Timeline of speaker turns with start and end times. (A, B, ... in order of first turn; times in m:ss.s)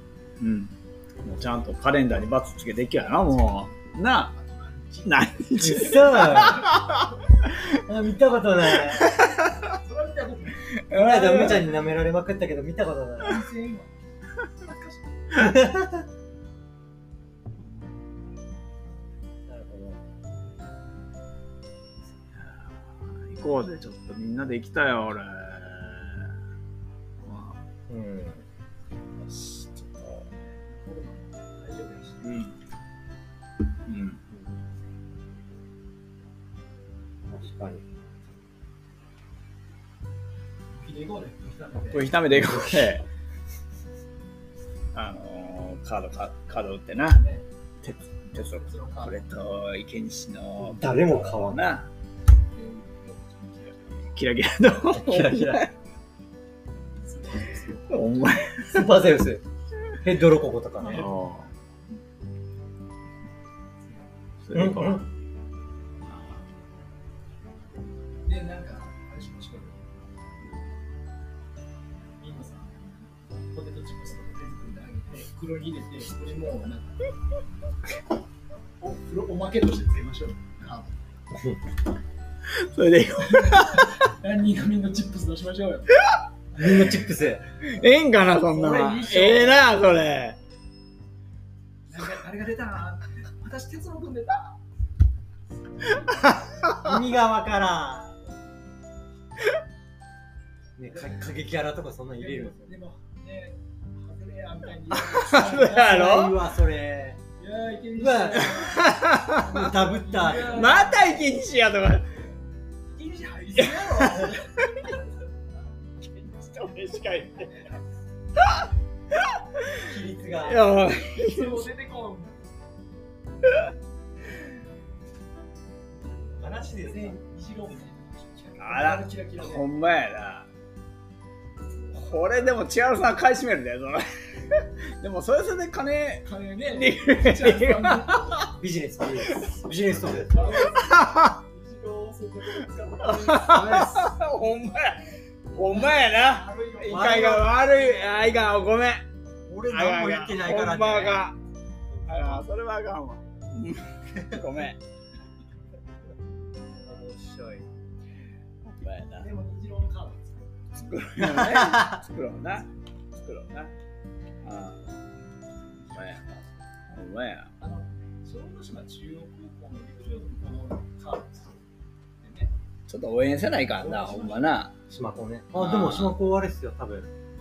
0:00.4-0:04.3 A
0:03.0-0:06.7 B
0:05.0-0:07.6 A
0:05.6-0:06.7 C
0:07.7-0:09.1 C
0:08.8-0:09.5 A
0:09.7-0:11.5 B
0:10.9-0:11.7 A
0:10.9-0:13.4 C
0:13.2-0:15.0 B
0:15.3-0:16.0 C
0:19.5-0:20.0 C
0:22.4-0:26.3 A
0:27.2-0:27.6 A
0:27.9-0:28.4 C
0:29.2-0:30.3 A
0:30.7-0:32.3 B
0:32.2-0:32.5 A
0:33.9-0:34.2 A
0:37.3-0:37.8 C
0:40.7-0:42.1 B
0:41.9-0:43.0 A
0:42.4-0:42.9 C
0:44.9-0:47.2 A
0:47.1-0:47.4 B
0:47.8-0:51.9 A
0:48.4-0:49.2 B
0:50.6-0:51.6 C
0:52.5-0:54.1 B
0:54.1-0:55.7 A
0:54.9-0:55.6 C
0:57.0-0:58.4 B
0:57.9-0:58.9 A
0:58.7-0:59.4 C
1:00.0-1:01.1 C
1:00.8-1:01.5 B
1:00.9-1:01.4 A
1:04.4-1:05.1 A
1:04.5-1:05.0 C
1:06.0-1:06.4 A
1:08.2-1:10.2 B
1:12.2-1:17.0 B
1:18.8-1:21.0 B
1:21.3-1:21.6 C
1:22.5-1:24.0 A
1:23.2-1:25.9 B
1:26.5-1:27.4 C
1:27.6-1:30.4 A
1:28.5-1:29.7 B
1:31.9-1:34.6 B
1:35.8-1:36.4 B
1:36.8-1:38.2 C
1:40.8-1:42.8 C
1:40.9-1:41.1 B
1:42.2-1:46.2 B
1:45.0-1:46.4 A
1:45.6-1:47.2 C
1:47.4-1:51.2 B
1:48.0-1:48.6 C
1:48.5-1:49.6 A
1:49.4-1:50.7 C
1:50.5-1:52.1 A
1:52.9-1:54.9 B
1:53.6-1:54.4 A
1:56.0-1:57.8 A
1:58.4-2:01.6 A
1:59.8-2:00.7 C
2:00.9-2:02.5 B
2:06.0-2:09.6 B
2:06.4-2:07.2 C
2:08.6-2:10.5 A
2:11.9-2:12.5 B
2:11.9-2:18.5 A
2:16.2-2:18.4 B
2:18.5-2:20.7 C
2:20.3-2:25.0 B
2:20.9-2:21.3 A
2:23.0-2:29.0 A
2:25.6-2:28.6 B
2:26.9-2:27.6 C
2:29.5-2:31.2 C
2:29.7-2:31.4 A
2:31.9-2:32.4 C
2:32.1-2:34.8 A
2:34.2-2:34.4 C
2:36.9-2:37.6 C
2:38.6-2:39.3 A
2:39.2-2:40.5 B
2:40.8-2:43.7 A
2:44.4-2:44.9 A
2:45.9-2:47.5 A
2:47.6-2:51.6 B
2:52.2-2:52.5 B
2:52.9-2:54.7 A
2:53.8-2:54.5 B
2:54.9-2:57.1 C
2:55.5-2:56.1 A